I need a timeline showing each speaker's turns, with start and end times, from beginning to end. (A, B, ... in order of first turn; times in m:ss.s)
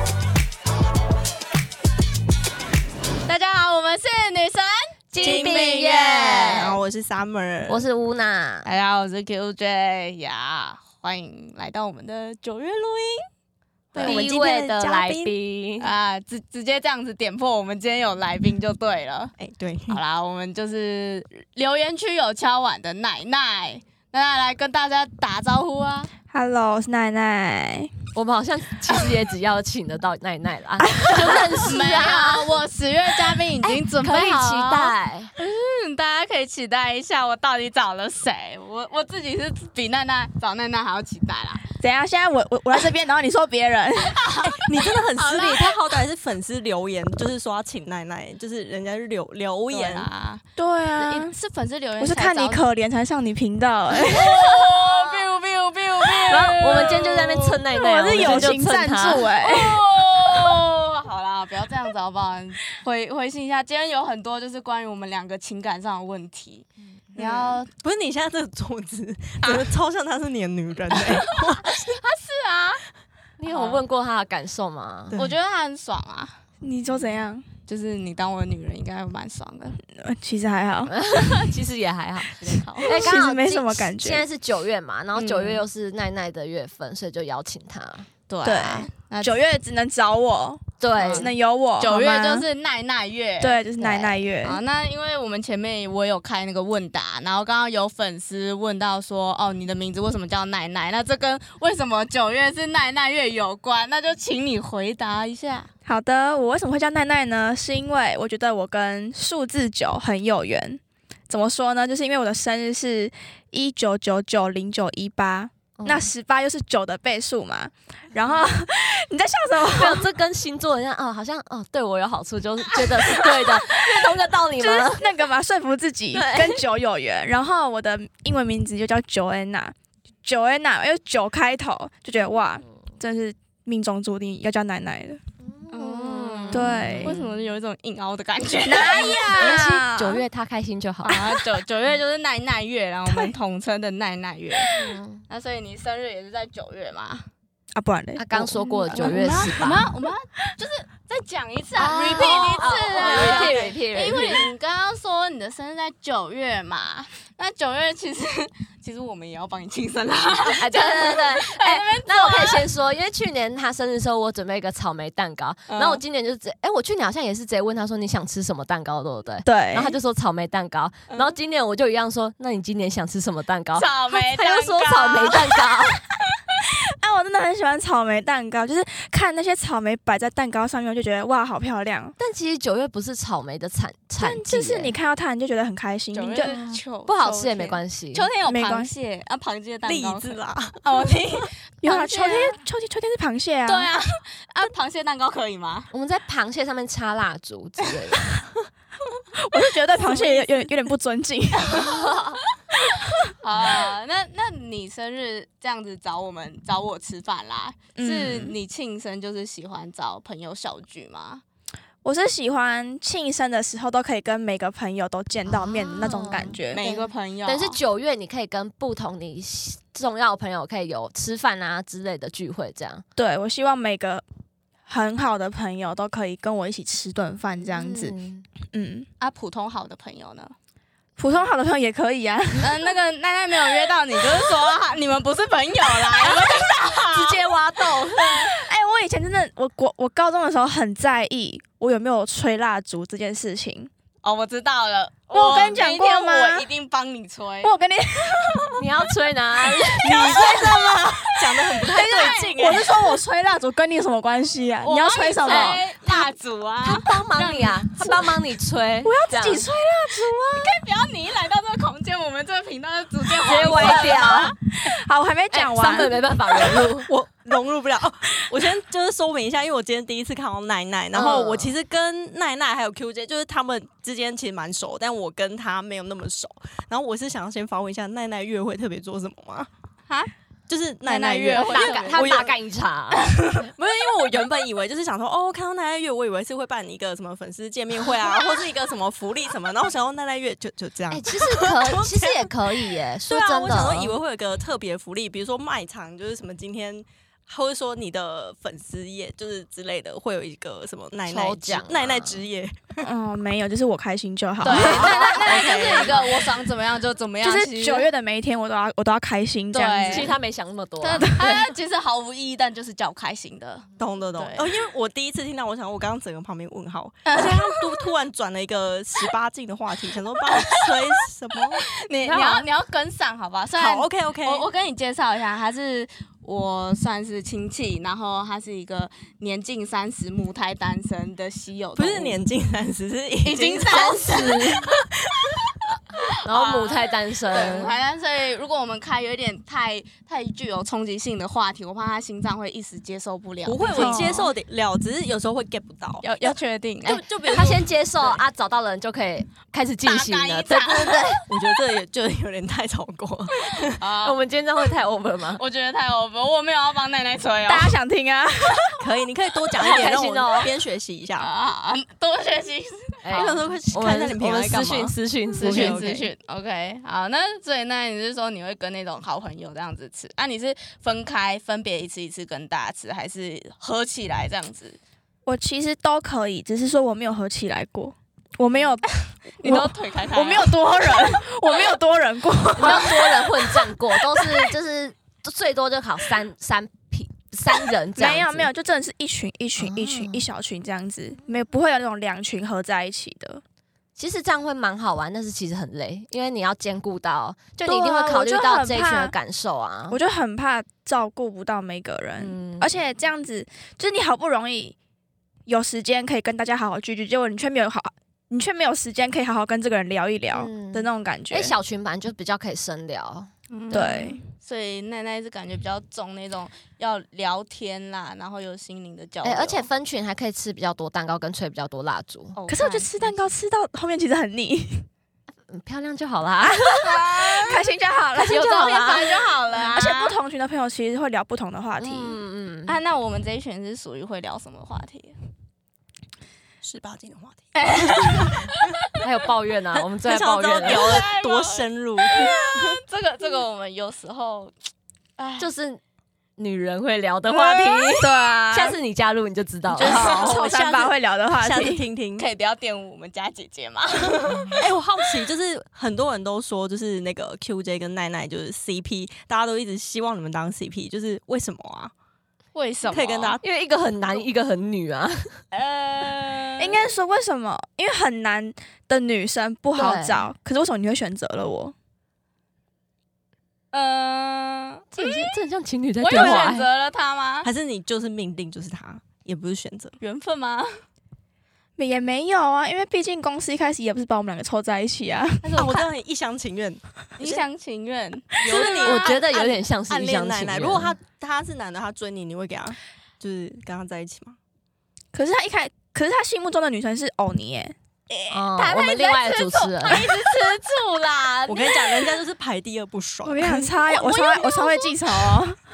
0:03.3-0:06.7 A
0:05.1-0:06.8 B
0:05.2-0:07.8 C
0:07.7-0:08.7 B
0:08.6-0:13.3 A
0:13.9-0:15.4 C
0:14.0-0:15.9 B
0:14.0-0:14.2 A
0:15.8-0:19.3 A
0:19.4-0:20.0 C
0:19.9-0:26.1 A
0:26.3-0:27.9 D
0:28.1-0:32.6 B
0:31.0-0:31.6 D
0:31.3-0:41.6 A
0:33.6-0:35.3 B
0:41.8-0:44.2 D
0:44.2-0:45.8 A
0:44.4-0:50.1 C
0:49.7-0:50.4 A
0:50.6-0:51.3 D
0:51.0-0:52.6 A
0:52.0-0:54.6 D
0:54.0-0:58.5 A
0:56.3-0:59.3 B
0:57.8-0:59.8 D
0:59.4-1:07.7 A
1:07.7-1:11.7 C
1:11.1-1:12.8 A
1:13.4-1:15.2 B
1:13.5-1:13.8 A
1:15.1-1:16.4 A
1:16.6-1:17.4 D
1:17.7-1:19.8 A
1:20.0-1:21.0 D
1:20.9-1:28.1 B
1:22.4-1:23.0 A
1:22.8-1:24.2 D
1:25.2-1:25.6 A
1:28.3-1:29.4 A
1:28.4-1:32.5 D
1:30.8-1:31.3 B
1:31.0-1:33.6 A
1:33.4-1:34.6 D
1:33.8-1:34.2 B
1:34.4-1:45.7 A
1:45.8-2:00.1 D
1:55.8-1:56.1 B
1:59.6-2:05.1 B
2:03.0-2:03.8 D
2:04.6-2:15.2 D
2:06.1-2:06.6 B
2:15.4-2:17.3 B
2:15.7-2:19.6 A
2:16.5-2:17.2 D
2:18.6-2:20.2 D
2:19.3-2:21.2 B
2:21.0-2:24.7 A
2:24.7-2:25.2 B
2:25.3-2:27.3 A
2:27.8-2:29.9 D
2:28.2-2:29.9 B
2:28.6-2:42.7 A
2:31.8-2:34.5 B
2:33.0-2:33.6 C
2:40.5-2:56.0 B
2:45.7-2:46.0 A
2:49.4-2:50.0 D
2:51.1-2:51.3 A
2:53.8-2:55.7 A
2:56.6-3:02.2 D
3:02.2-3:05.0 B
3:04.2-3:06.6 D
3:06.1-3:12.6 A
3:06.4-3:08.3 B
3:08.5-3:08.9 D
3:09.8-3:10.8 C
3:11.8-3:13.9 D
3:13.7-3:15.9 A
3:15.9-3:18.3 B
3:19.4-3:22.0 D
3:20.0-3:20.4 A
3:21.7-3:22.4 B
3:23.4-3:31.4 A
3:28.0-3:28.6 D
3:32.0-3:36.8 D
3:35.5-3:43.0 B
3:36.7-3:37.8 A
3:43.2-3:44.2 D
3:44.9-3:48.2 D
3:47.6-3:48.4 B
3:48.7-3:49.1 D
3:49.2-3:50.5 A
3:51.2-3:52.8 D
3:52.6-3:58.4 A
3:57.1-3:58.3 B
3:57.9-4:03.9 D
4:04.2-4:07.7 A
4:05.3-4:06.7 D
4:07.6-4:08.8 D
4:08.8-4:10.4 B
4:09.7-4:11.1 D
4:10.0-4:13.0 C
4:11.8-4:15.8 D
4:11.8-4:12.5 A
4:14.8-4:18.3 A
4:15.4-4:16.3 B
4:16.8-4:19.7 B
4:19.0-4:20.8 D
4:20.6-4:24.6 A
4:23.4-4:24.5 B
4:23.7-4:24.2 D
4:24.8-4:26.8 D
4:25.5-4:27.1 B
4:27.0-4:39.7 C
4:31.1-4:31.8 B
4:40.7-4:42.6 C
4:41.0-4:42.3 A
4:41.5-4:43.4 B
4:43.6-4:52.5 C
4:51.1-4:54.2 B
4:53.3-5:03.0 C
5:01.3-5:02.5 B
5:03.0-5:05.2 D
5:04.6-5:08.1 A
5:04.7-5:06.3 C
5:04.8-5:06.2 B
5:07.4-5:10.3 D
5:09.7-5:10.4 A
5:10.1-5:11.4 B
5:11.0-5:13.8 A
5:11.2-5:11.5 D
5:14.0-5:22.6 C
5:14.4-5:14.7 A
5:17.3-5:17.8 A
5:20.5-5:20.9 A
5:22.0-5:32.4 A
5:23.8-5:24.7 C
5:32.0-5:34.2 C
5:33.4-5:34.9 A
5:33.9-5:34.9 B
5:36.4-5:37.9 B
5:36.5-5:44.4 A
5:43.7-5:48.4 C
5:44.0-5:44.5 D
5:46.2-5:47.8 A
5:47.5-5:51.4 B
5:50.0-5:51.4 A
5:51.5-5:54.0 C
5:53.7-5:54.4 A
5:54.2-5:55.6 B
5:55.6-5:58.0 A
5:57.7-5:59.0 D
5:59.0-6:01.5 C
5:59.8-6:00.7 B
6:01.4-6:03.5 A
6:03.2-6:06.2 B
6:03.3-6:06.2 C
6:05.6-6:15.0 A
6:15.5-6:23.7 D
6:19.6-6:21.3 A
6:22.8-6:28.7 B
6:22.8-6:23.4 A
6:28.2-6:33.6 D
6:29.8-6:30.5 B
6:34.2-6:40.2 B
6:37.9-6:39.3 D
6:40.1-6:45.0 D
6:42.4-6:43.0 B
6:45.7-6:51.8 D
6:50.5-6:54.2 B
6:53.7-6:59.9 A
6:53.9-6:54.4 D
6:59.4-7:02.6 B
7:02.5-7:03.1 A
7:02.7-7:05.1 D
7:05.7-7:07.1 B
7:06.6-7:08.8 D
7:07.0-7:07.8 A
7:08.4-7:10.4 A
7:08.5-7:09.4 B
7:09.9-7:12.4 D
7:12.0-7:13.0 B
7:12.9-7:15.4 A
7:16.8-7:18.8 C
7:17.8-7:18.8 A
7:19.2-7:21.3 B
7:19.9-7:23.0 C
7:20.8-7:24.7 A
7:25.4-7:25.7 A
7:25.6-7:26.0 B
7:26.6-7:30.3 B
7:27.5-7:28.2 A
7:28.2-7:29.0 D
7:29.9-7:32.0 D
7:30.2-7:32.5 C
7:32.4-7:34.8 A
7:34.5-7:42.1 C
7:42.8-7:43.6 A
7:43.1-7:43.6 C
7:43.6-7:45.6 B
7:45.7-7:47.0 A
7:46.8-7:51.9 D
7:50.0-7:50.5 B
7:53.9-7:55.6 A
7:55.1-7:56.9 B
7:56.2-7:57.7 A
7:56.3-7:56.8 C
7:57.6-8:00.2 C
8:00.2-8:00.9 A
8:02.0-8:05.9 D
8:05.6-8:06.1 A
8:05.8-8:07.6 C
8:07.4-8:09.5 A
8:08.6-8:14.6 C
8:09.0-8:11.2 B
8:15.3-8:18.0 D
8:18.3-8:22.3 A
8:18.5-8:20.2 B
8:21.7-8:24.6 C
8:23.4-8:25.8 D
8:24.1-8:25.2 A